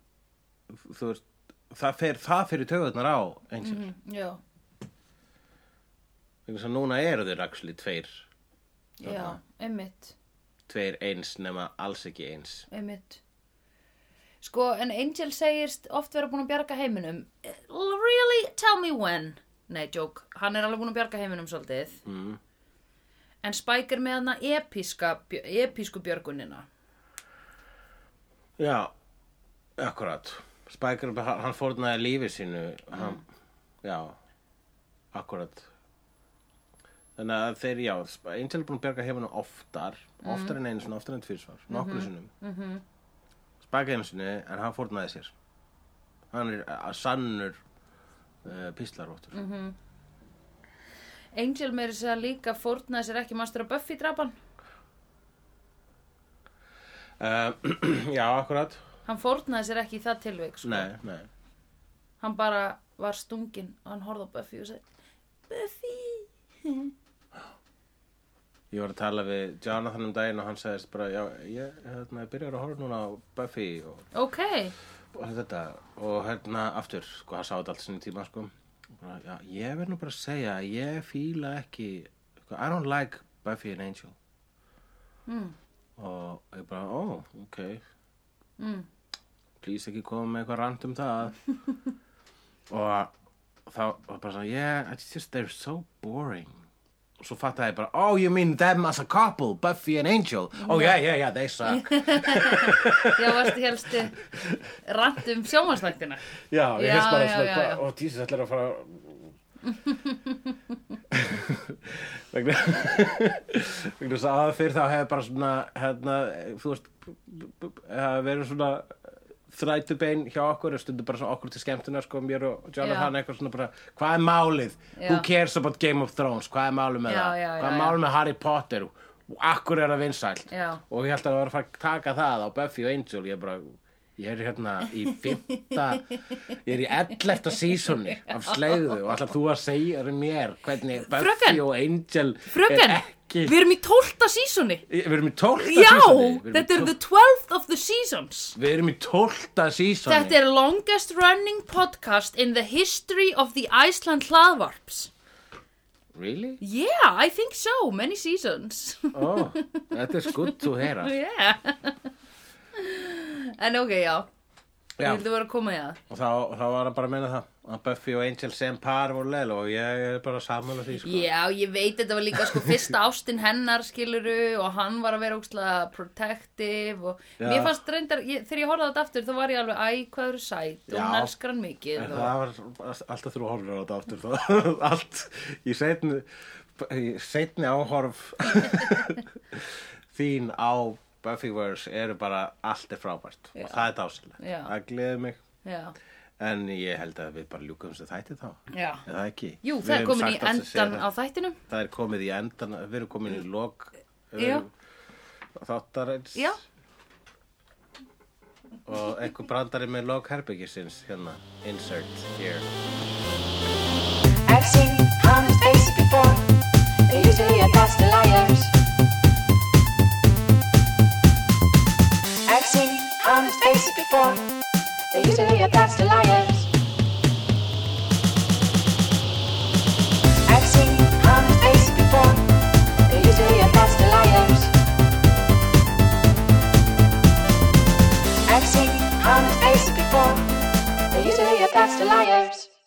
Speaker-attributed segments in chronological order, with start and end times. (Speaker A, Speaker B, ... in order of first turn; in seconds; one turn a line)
Speaker A: 0.7-3.9
Speaker B: 3.6-4.4
Speaker A: 6.5-8.3
Speaker B: 9.0-10.2
Speaker A: 9.0-9.4
Speaker A: 10.7-12.7
Speaker B: 12.7-13.2
Speaker B: 14.4-22.0
Speaker A: 22.1-22.4
Speaker B: 23.4-26.7
Speaker A: 28.6-28.9
Speaker A: 29.8-33.2
Speaker B: 32.9-33.2
Speaker A: 33.8-34.2
Speaker A: 35.1-35.7
Speaker A: 37.2-42.3
Speaker B: 40.2-40.6
Speaker B: 41.7-42.8
Speaker A: 43.6-45.3
Speaker A: 46.3-47.6
Speaker A: 48.4-49.4
Speaker B: 49.3-49.8
Speaker B: 51.3-54.4
Speaker A: 57.2-58.8
Speaker B: 59.1-60.9
Speaker A: 60.6-61.3
Speaker B: 62.2-64.8
Speaker B: 65.5-66.9
Speaker A: 68.7-74.0
Speaker B: 74.1-74.7
Speaker A: 75.1-84.2
Speaker B: 85.3-85.5
Speaker A: 86.0-87.8
Speaker B: 88.6-88.9
Speaker A: 89.6-91.4
Speaker A: 92.7-93.1
Speaker A: 93.7-96.6
Speaker A: 97.2-103.5
Speaker B: 100.6-101.0
Speaker B: 101.7-104.2
Speaker A: 104.3-104.6
Speaker B: 104.8-106.2
Speaker A: 106.5-109.3
Speaker B: 106.8-107.8
Speaker B: 109.7-110.5
Speaker A: 111.1-143.6
Speaker B: 122.8-123.1
Speaker B: 125.0-125.3
Speaker B: 127.1-128.0
Speaker B: 130.5-130.8
Speaker B: 134.9-136.2
Speaker B: 138.1-138.9
Speaker B: 141.1-141.6
Speaker B: 142.5-144.8
Speaker A: 144.9-146.9
Speaker B: 145.6-148.6
Speaker A: 148.6-150.4
Speaker B: 150.1-155.1
Speaker A: 156.1-156.6
Speaker B: 156.6-162.1
Speaker A: 159.1-161.2
Speaker B: 162.8-164.3
Speaker A: 165.0-165.2
Speaker B: 165.0-166.0
Speaker A: 166.1-171.3
Speaker B: 171.0-182.3
Speaker A: 172.3-172.9
Speaker A: 177.4-177.7
Speaker A: 180.9-181.3
Speaker A: 182.0-195.4
Speaker B: 193.6-193.9
Speaker B: 194.4-194.7
Speaker B: 195.7-195.9
Speaker A: 196.4-201.1
Speaker B: 198.7-199.1
Speaker B: 199.6-201.6
Speaker A: 201.7-204.7
Speaker B: 204.4-204.7
Speaker A: 205.6-206.6
Speaker B: 206.3-206.6
Speaker A: 208.9-212.7
Speaker C: 214.5-216.5
Speaker C: 217.1-218.7
Speaker C: 222.5-224.5
Speaker C: 225.1-226.7
Speaker C: 230.5-232.5
Speaker C: 233.1-234.7
Speaker C: 238.5-240.5
Speaker C: 241.1-242.7